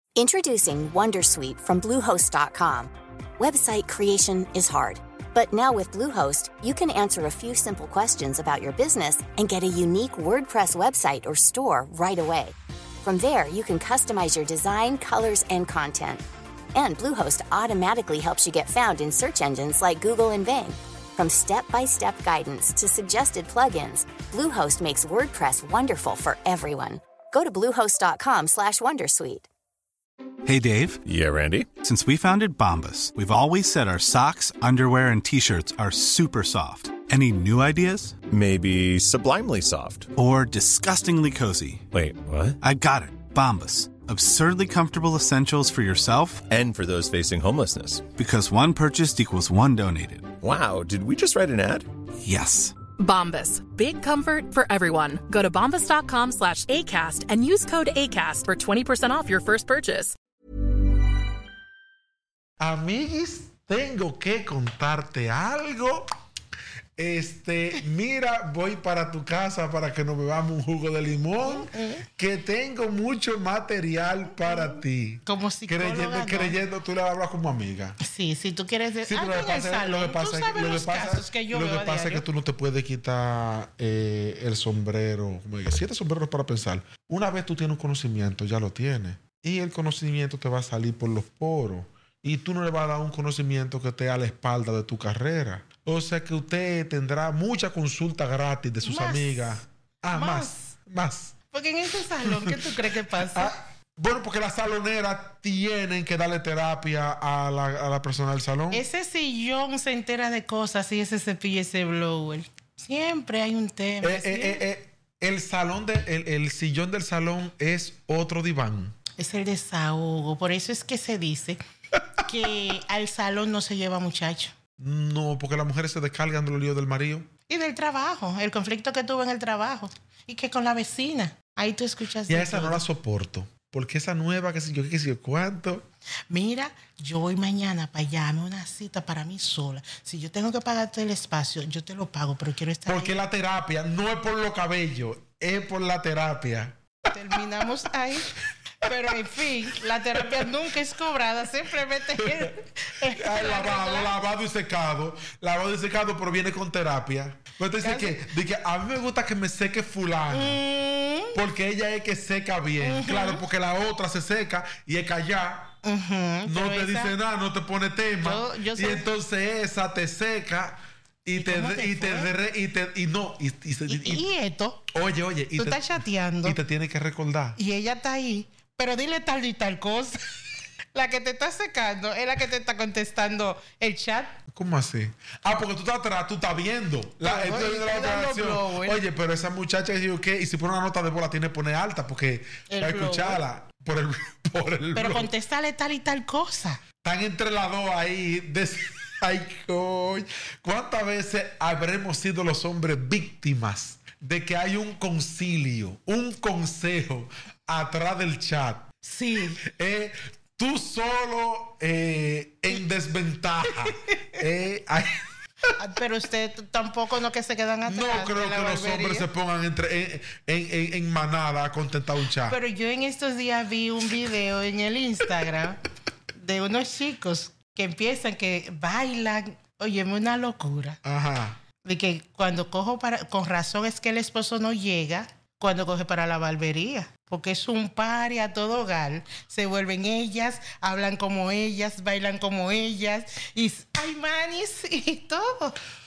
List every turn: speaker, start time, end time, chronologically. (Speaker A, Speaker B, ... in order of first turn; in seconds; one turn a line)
Speaker A: 0.1-16.2
Speaker A: 16.7-29.5
Speaker B: 30.4-31.0
Speaker C: 31.0-31.7
Speaker B: 31.8-38.1
Speaker C: 38.2-40.1
Speaker B: 40.1-41.8
Speaker C: 41.9-42.6
Speaker B: 42.6-46.4
Speaker C: 46.5-48.1
Speaker B: 48.1-50.3
Speaker C: 50.4-51.9
Speaker B: 52.2-52.8
Speaker D: 53.0-60.1
Speaker E: 62.6-66.1
Speaker E: 67.0-78.0
Speaker F: 75.2-76.5
Speaker F: 78.1-82.2
Speaker E: 79.0-101.3
Speaker F: 98.8-99.3
Speaker F: 100.1-100.7
Speaker F: 101.5-103.5
Speaker E: 103.2-108.8
Speaker F: 108.7-114.5
Speaker E: 114.0-118.9
Speaker F: 119.2-121.6
Speaker F: 122.3-124.5
Speaker E: 124.8-127.3
Speaker F: 127.5-132.8
Speaker E: 132.3-135.8
Speaker F: 136.3-143.2
Speaker E: 142.8-146.8
Speaker F: 147.1-148.3
Speaker F: 148.9-154.1
Speaker E: 152.2-152.4
Speaker E: 153.1-160.6
Speaker F: 157.8-158.1
Speaker F: 160.3-161.3
Speaker E: 161.3-165.8
Speaker F: 162.8-163.4
Speaker F: 165.8-167.1
Speaker E: 166.4-174.3
Speaker F: 168.2-169.0
Speaker F: 171.4-172.3
Speaker F: 173.9-174.8
Speaker E: 174.9-175.9
Speaker F: 175.6-176.6
Speaker E: 176.4-177.6
Speaker F: 177.6-180.1
Speaker F: 180.9-184.4
Speaker E: 184.5-195.3
Speaker F: 187.2-189.0
Speaker F: 192.8-193.4
Speaker F: 194.9-196.8
Speaker E: 197.0-208.9
Speaker F: 209.0-209.5
Speaker E: 209.6-215.2
Speaker F: 215.8-219.2
Speaker E: 217.8-222.6
Speaker F: 222.5-225.8
Speaker F: 226.4-231.0
Speaker E: 231.0-231.6
Speaker F: 231.8-245.7